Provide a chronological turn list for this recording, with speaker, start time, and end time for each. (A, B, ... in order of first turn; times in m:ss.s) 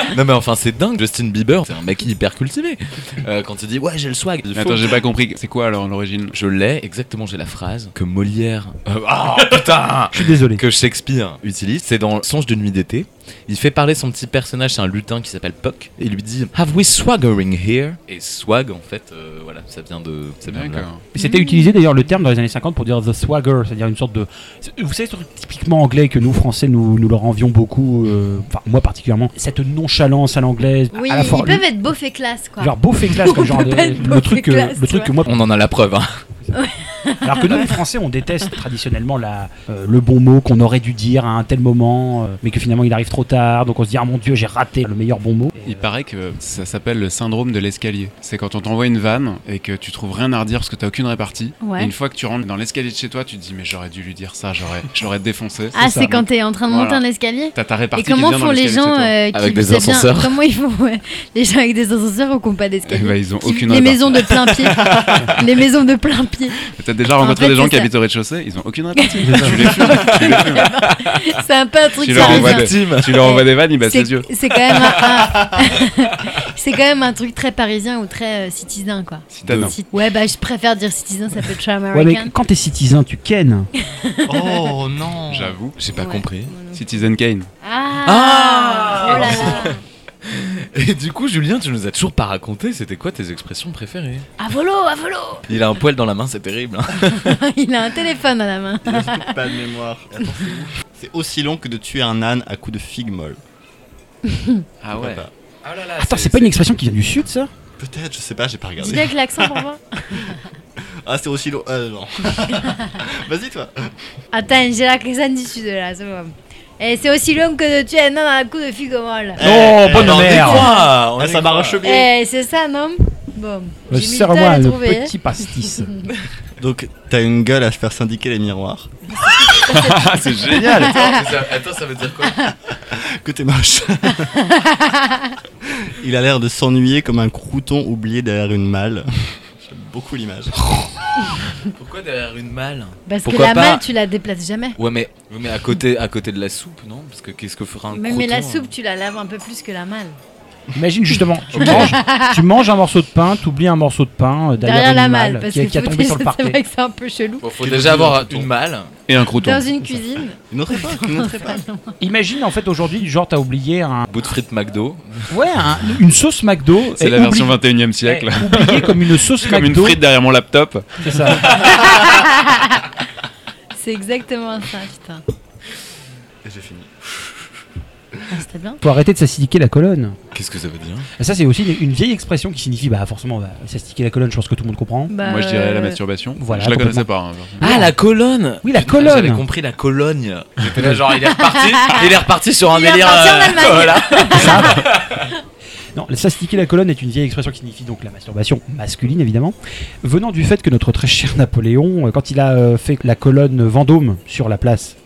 0:00.1-0:05.0 A
0:04.5-0:06.3 B
0:06.3-0:20.9 A
0:10.1-0:10.6 C
0:20.5-0:21.0 B
0:21.1-0:31.7 C
0:21.2-0:21.7 D
0:30.9-0:35.1 D
0:32.6-0:35.4 C
0:35.2-0:36.2 A
0:36.5-0:37.8 D
0:37.2-0:45.9 C
0:45.6-0:56.2 B
0:51.6-0:51.9 D
0:55.7-1:06.6 D
0:55.8-0:56.2 C
0:56.7-0:57.0 B
0:57.5-0:59.1 B
0:59.3-1:00.4 A
1:02.9-1:04.5 B
1:06.7-1:10.6 B
1:07.2-1:07.9 D
1:09.0-1:22.3 D
1:09.2-1:09.8 C
1:09.8-1:11.2 A
1:12.0-1:14.3 B
1:12.1-1:13.2 A
1:19.3-1:19.8 B
1:19.5-1:19.8 A
1:21.9-1:23.7 C
1:23.8-1:24.7 D
1:24.3-1:25.6 E
1:25.3-1:25.8 B
1:25.8-1:26.5 A
1:25.9-1:27.0 D
1:26.7-1:27.5 B
1:27.6-1:29.8 D
1:28.0-1:34.3 A
1:34.4-1:35.5 D
1:35.5-1:37.4 A
1:37.1-1:39.3 D
1:38.8-1:43.4 E
1:44.3-1:44.6 D
1:44.8-1:45.2 B
1:45.0-1:45.3 E
1:45.6-1:46.3 A
1:46.0-1:47.5 C
1:46.1-1:46.4 B
1:47.8-1:49.6 E
1:48.8-1:50.4 D
1:51.0-1:53.9 E
1:54.3-1:59.4 D
1:59.4-2:02.1 E
1:59.4-2:00.7 C
1:59.9-2:01.9 A
2:00.5-2:00.8 D
2:01.8-2:05.1 D
2:03.9-2:05.9 C
2:06.6-2:08.9 E
2:09.2-2:11.2 D
2:09.7-2:10.9 B
2:10.7-2:12.5 A
2:12.9-2:14.4 E
2:14.5-2:15.4 D
2:15.8-2:20.9 E
2:21.7-2:23.8 A
2:23.1-2:24.8 D
2:24.8-2:28.7 A
2:27.9-2:30.2 D
2:30.7-2:36.6 C
2:31.6-2:31.9 A
2:31.6-2:32.4 D
2:34.6-2:37.4 D
2:37.4-2:38.9 A
2:37.6-2:38.5 E
2:39.1-2:39.7 B
2:39.4-2:41.9 D
2:40.5-2:41.6 E
2:42.0-2:44.1 C
2:44.1-2:45.3 A
2:45.3-2:50.0 C
2:47.0-2:51.4 B
2:51.0-2:51.4 C
2:51.5-2:52.9 D
2:53.7-2:55.2 D
2:56.4-2:57.4 E
2:58.3-2:58.8 D
2:58.8-3:00.2 C
3:00.3-3:01.1 A
3:01.2-3:05.1 C
3:05.1-3:06.0 D
3:05.2-3:07.6 B
3:06.4-3:07.1 C
3:07.6-3:08.0 C
3:07.6-3:15.2 A
3:08.6-3:09.4 C
3:11.3-3:12.0 D
3:12.7-3:14.8 D
3:14.3-3:14.9 C
3:15.9-3:25.0 C